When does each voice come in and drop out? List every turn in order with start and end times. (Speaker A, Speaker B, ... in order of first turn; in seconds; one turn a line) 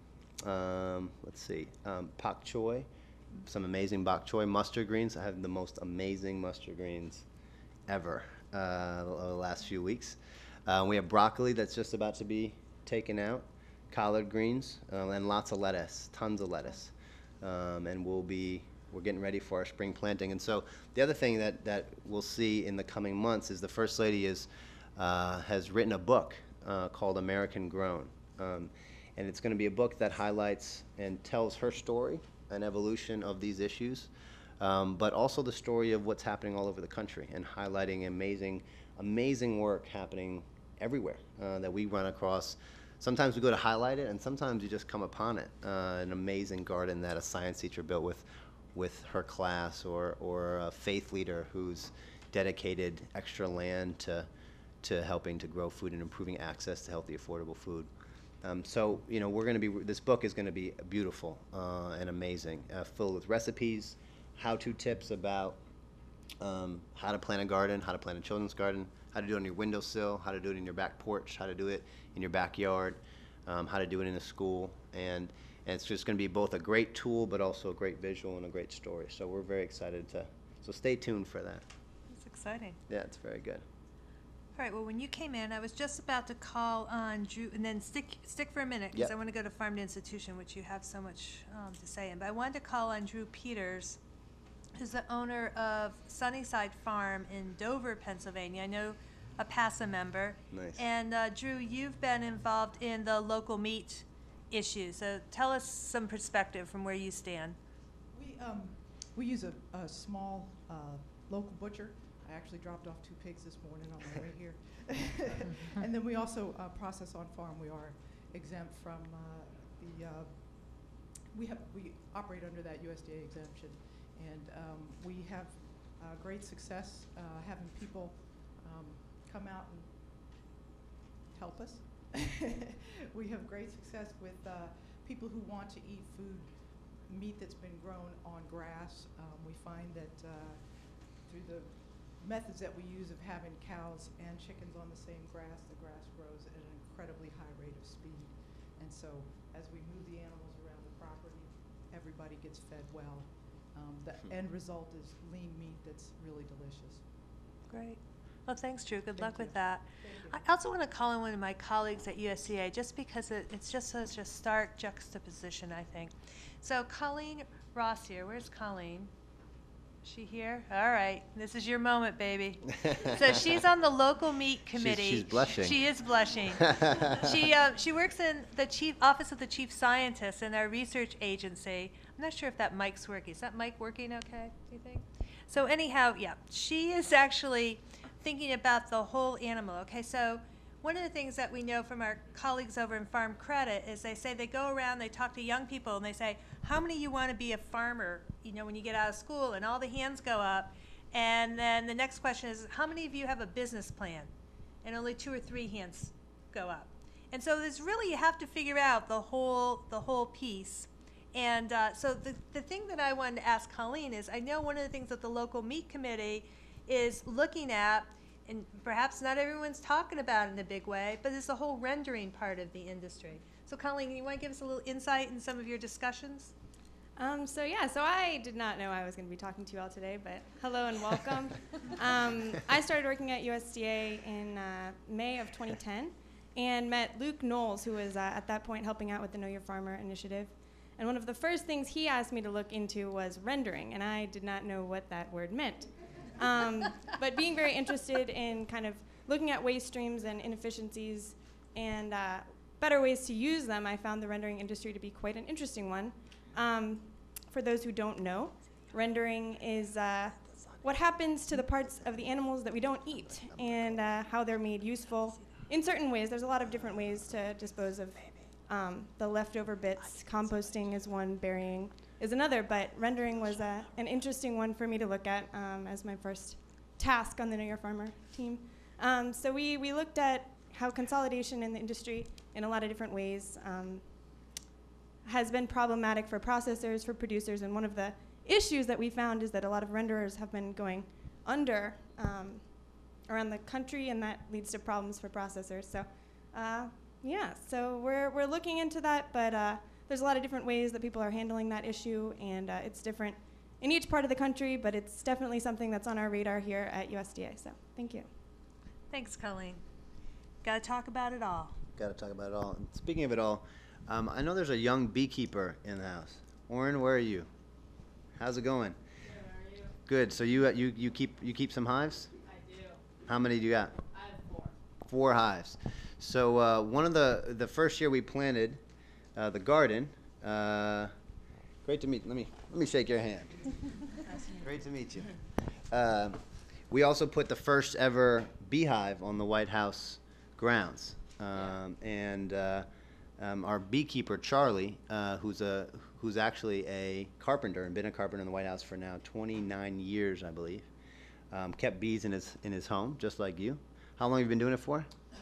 Speaker A: 0.4-7.2
Speaker A: 7.9-54.3
Speaker A: 54.8-57.9
Speaker A: 58.4-65.6
Speaker A: 66.4-81.6
Speaker B: 82.1-82.8
Speaker A: 82.9-83.6
Speaker B: 84.5-94.0
Speaker B: 94.7-107.5
Speaker A: 100.5-100.8
Speaker C: 108.1-130.4
Speaker C: 131.3-157.5
Speaker B: 157.7-169.1
Speaker C: 159.2-160.5
Speaker B: 170.0-204.3
Speaker A: 172.9-173.2
Speaker A: 174.7-175.8
Speaker A: 176.6-177.1
Speaker B: 204.8-226.5
Speaker D: 227.2-284.0
Speaker D: 285.2-308.3
Speaker B: 309.1-309.8
Speaker B: 310.6-311.8
Speaker A: 311.9-317.5
Speaker A: 318.4-319.0
Speaker E: 319.2-319.9
Speaker A: 320.1-322.3
Speaker E: 322.4-323.0
Speaker A: 323.2-323.9
Speaker E: 324.1-324.7
Speaker A: 325.1-328.8
Speaker A: 329.4-331.1
Speaker A: 331.8-334.0
Speaker A: 334.5-335.3
Speaker A: 335.9-342.9
Speaker A: 343.4-350.9
Speaker A: 351.5-355.1